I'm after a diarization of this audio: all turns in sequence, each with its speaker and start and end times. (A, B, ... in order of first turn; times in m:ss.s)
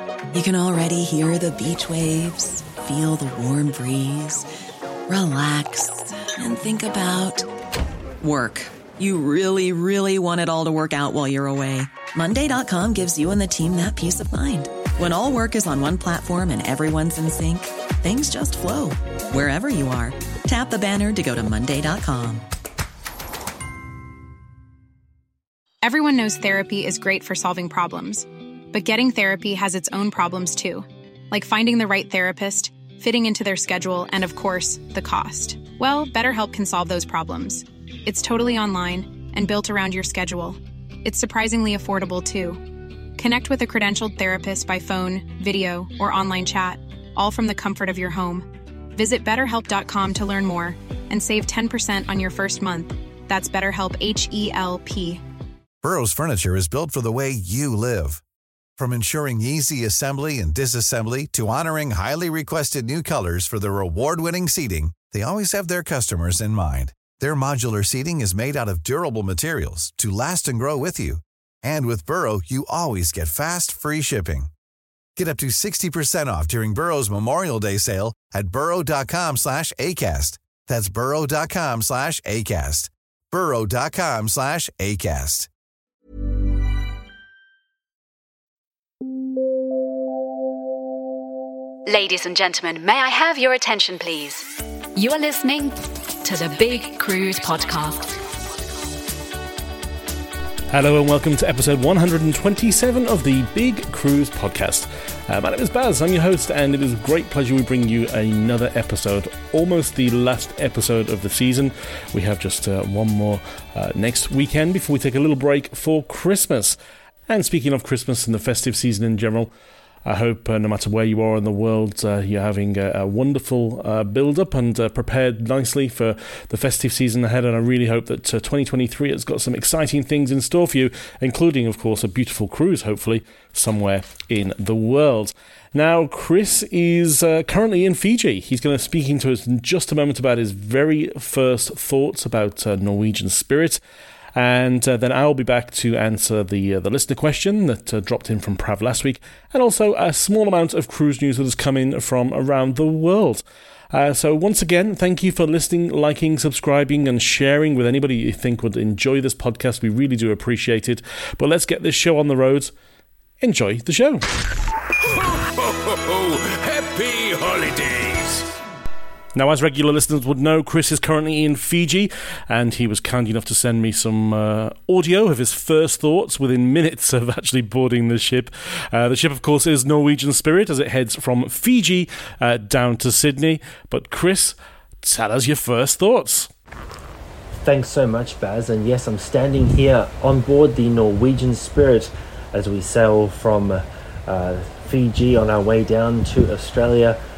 0:00.3-0:04.5 A
0:05.1-0:07.5 A
0:08.2-0:22.4 A
0:25.8-0:42.6 B
0:43.2-0:55.2 B
0:55.8-0:58.2 C
0:58.8-1:14.5 C
1:15.2-1:25.5 C
1:31.8-1:38.1 D
1:40.7-1:59.5 E
2:00.0-2:23.8 E
2:24.4-2:42.7 E
2:43.4-2:44.2 E
2:45.0-2:48.5 F
2:49.3-3:06.5 E
3:07.6-3:17.2 G